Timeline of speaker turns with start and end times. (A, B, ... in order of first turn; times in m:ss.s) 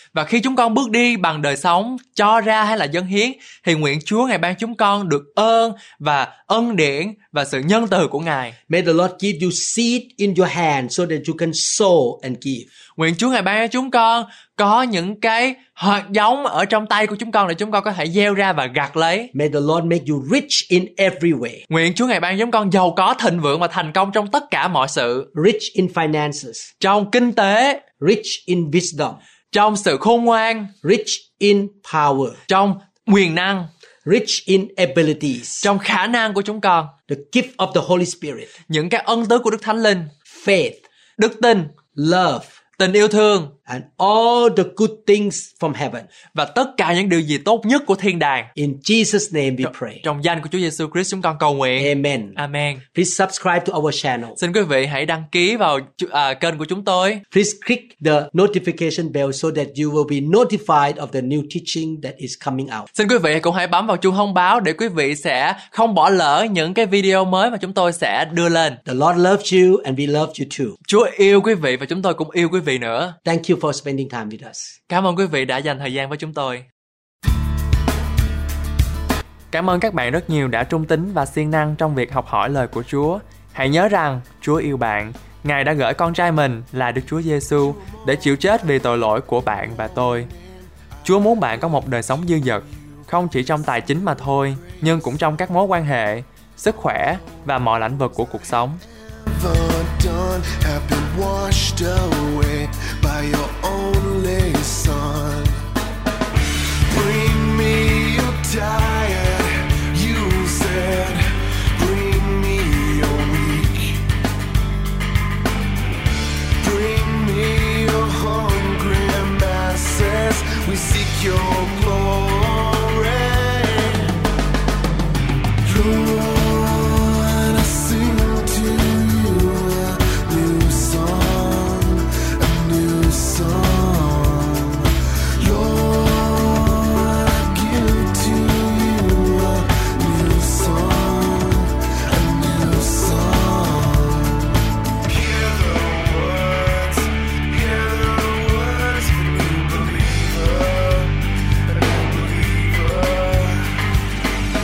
0:00.1-0:08.6 A
0:08.7-0:12.7 B
0:13.0-0:19.3 A
0:19.3-0:21.6 B
0:21.7-0:25.3 A
0:25.3-0:26.7 B
0:26.8-0:27.8 A
0:28.0-0:29.2 B
0:29.5-0:30.7 A
0:30.8-0:32.4 B
0:32.5-0:33.7 A
0:34.0-0:35.7 B
0:35.6-0:36.9 A
0:37.1-0:38.5 B
0:38.7-0:40.1 A
0:40.3-0:40.8 B
0:41.2-0:41.8 A
0:41.9-0:42.5 B
0:42.8-0:43.5 A
0:43.7-0:46.1 B
0:46.3-0:48.5 A
0:48.6-0:50.0 B
0:49.6-0:52.8 A
0:51.8-0:52.4 B
0:52.9-0:54.4 B
0:54.4-0:57.2 A
0:57.3-1:02.9 B
1:02.9-1:08.8 A
1:08.9-1:10.8 B
1:10.9-1:13.2 A
1:13.2-1:14.7 B
1:14.9-1:16.6 A
1:19.5-1:30.3 A
1:27.8-1:28.4 C
1:30.0-1:30.3 C
1:31.0-1:31.4 C
1:31.0-1:38.8 A
1:34.6-1:34.8 C
1:39.0-1:45.6 C
1:46.9-1:54.1 C
1:56.6-2:04.2 C
2:05.6-2:33.8 C